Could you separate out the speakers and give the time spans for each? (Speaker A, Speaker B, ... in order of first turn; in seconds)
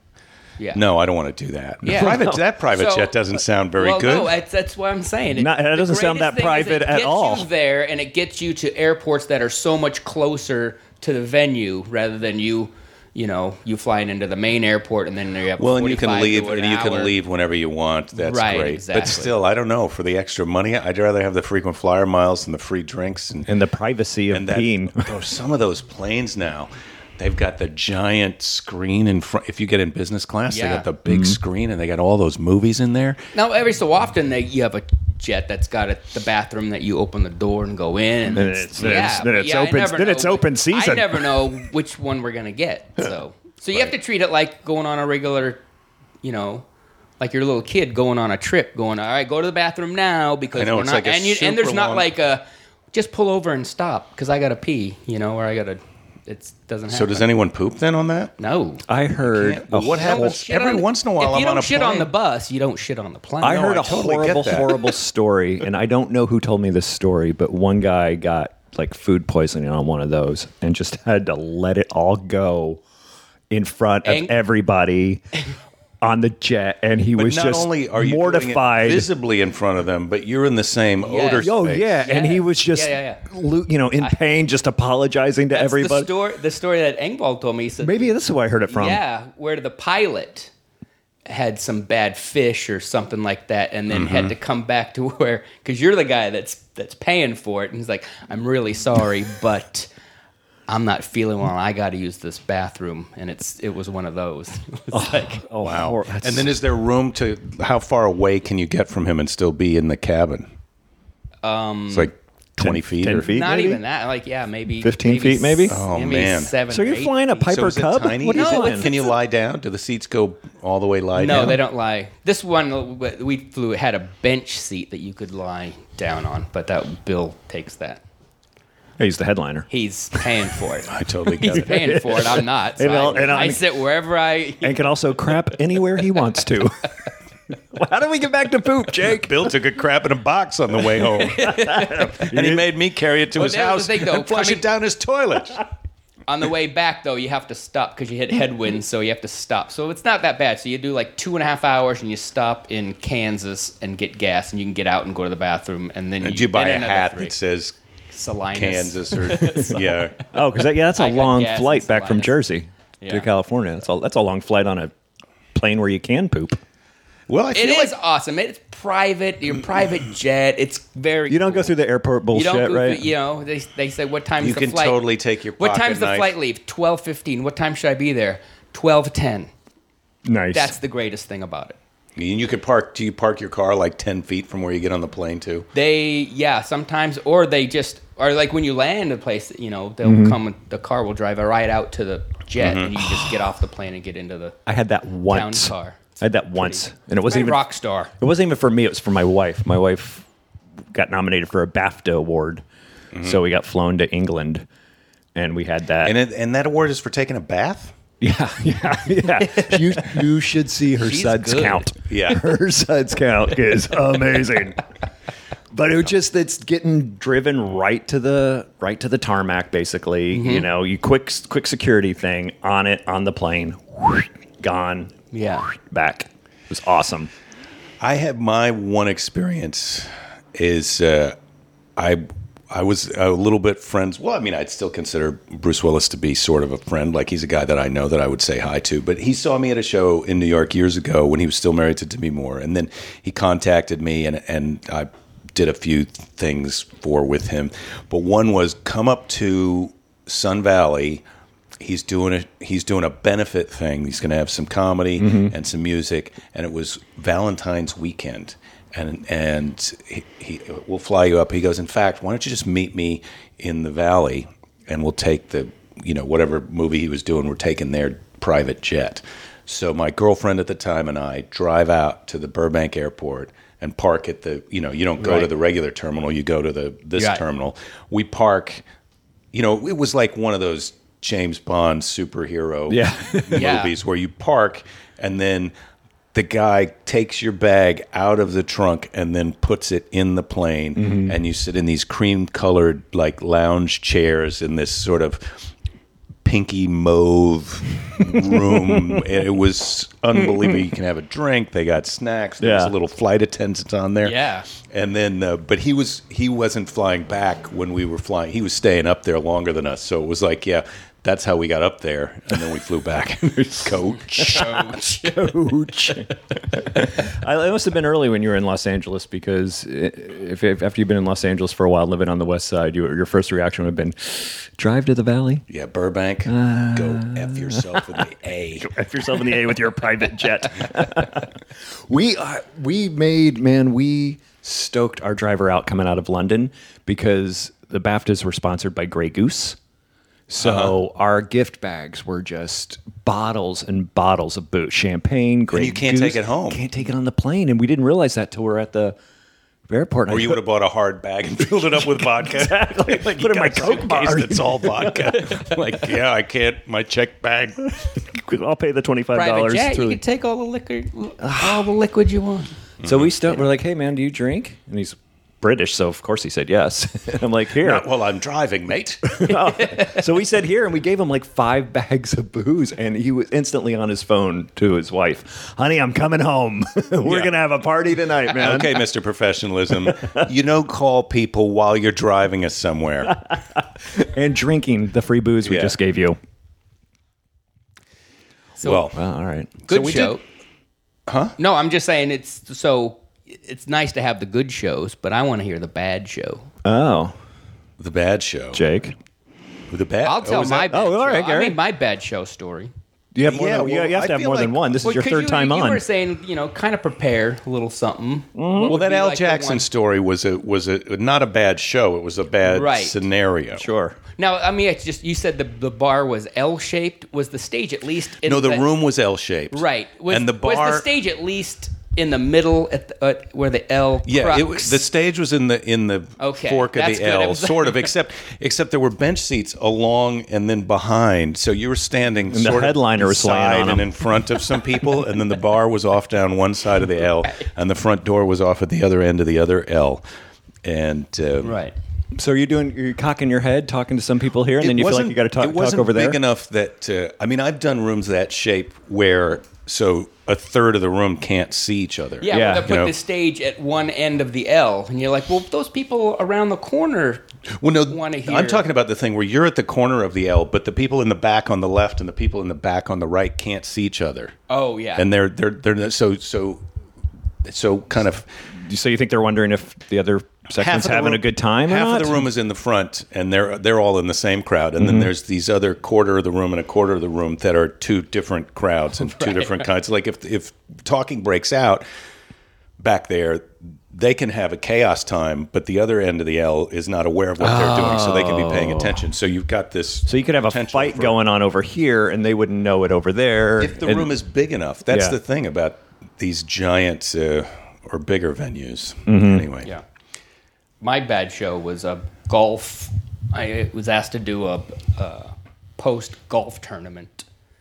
Speaker A: 0.7-4.3, 15.6-23.5, 24.3-33.2, 50.5-52.1, 56.9-58.3, 59.2-62.1, 63.5-64.8, 77.2-82.0, 93.9-94.3, 105.6-110.5, 111.9-113.3, 115.7-116.5, 117.4-121.6, 130.8-131.9, 139.1-141.6, 142.1-145.6, 156.2-157.7, 158.5-160.2, 167.3-167.9, 174.4-176.3, 182.2-185.7, 192.6-192.9, 203.1-203.4, 206.0-207.9, 212.1-212.4, 228.0-231.3, 231.9-251.2, 251.8-278.8, 279.5-285.7, 286.3-295.6, 296.4-315.0, 325.7-328.9, 340.6-340.9, 345.7-346.8, 350.3-357.9, 363.0-363.3, 367.8-369.5, 377.2-377.5, 378.5-383.4, 385.6-385.9, 388.8-389.2, 389.9-390.4, 391.3-391.5, 398.0-398.8, 399.9-400.9, 403.4-404.9, 408.9-413.9, 418.4-421.1, 424.2-440.2, 440.8-441.8, 444.8-453.1, 457.8-464.6, 465.1-466.8, 467.6-468.5, 470.7-482.0, 483.0-491.4, 493.8-499.9
Speaker B: 1.8-3.2, 3.8-17.1, 18.1-19.3, 30.5-30.9, 33.3-45.6, 46.2-46.6, 47.2-57.2, 58.4-58.8, 59.9-64.1, 74.0-74.3, 81.0-81.5, 82.0-83.2, 85.5-88.1, 88.7-90.5, 91.2-99.9, 100.7-105.4, 111.4-112.1, 113.3-117.5, 118.3-119.1, 121.2-128.0, 129.7-134.8, 141.1-142.3, 143.3-144.6, 146.3-157.3, 158.1-160.0, 160.9-162.4, 163.0-163.3, 167.5-171.7, 172.3-175.0, 175.6-179.5, 180.5-181.8, 185.7-194.6, 195.3-198.1, 211.0-211.9, 220.3-220.7, 225.3-225.7, 275.2-275.5, 277.1-277.4, 283.6-283.9, 304.2-304.7, 314.5-315.4, 359.3-362.8, 369.7-370.2, 389.9-390.4, 391.6-396.7, 400.2-402.9, 405.0-409.8, 412.6-413.2, 414.4-418.8, 419.7-425.0, 426.4-428.1, 441.6-441.9, 452.4-457.4, 458.1-458.8, 464.7-465.2, 479.4-479.8, 501.0-507.4
Speaker C: 1.9-2.4, 5.3-7.5, 23.5-25.1, 31.1-31.4, 38.3-41.6, 58.9-60.4, 63.4-72.8, 73.5-75.2, 76.0-79.1, 81.4-86.1, 87.8-89.0, 104.9-106.5, 112.6-113.8, 114.8-115.8, 116.7-118.9, 129.0-129.7, 131.5-133.6, 134.6-136.9, 137.5-139.5, 141.5-142.6, 160.3-164.9, 165.5-166.6, 171.3-173.1, 180.2-180.7, 190.0-190.4, 194.7-197.6, 198.2-200.2, 200.9-202.6, 203.2-204.7, 205.3-206.2, 208.2-214.8, 215.7-225.1, 225.7-227.3, 255.2-255.5, 282.9-283.8, 290.9-291.3, 298.7-299.2, 302.6-302.9, 314.4-325.6, 326.4-328.0, 328.8-331.5, 332.1-339.8, 340.5-349.1, 349.9-350.6, 351.9-355.6, 357.9-360.2, 361.4-361.9, 363.0-368.1, 369.3-379.0, 380.0-380.5, 383.3-386.4, 389.1-390.2, 396.8-397.3, 398.7-399.1, 400.9-401.8, 403.3-406.0, 408.5-408.9, 413.8-414.2, 432.5-434.1, 442.3-446.4, 452.5-452.9, 468.7-472.5, 475.0-475.3, 487.6-489.3, 490.3-494.3, 495.1-495.4, 499.3-499.7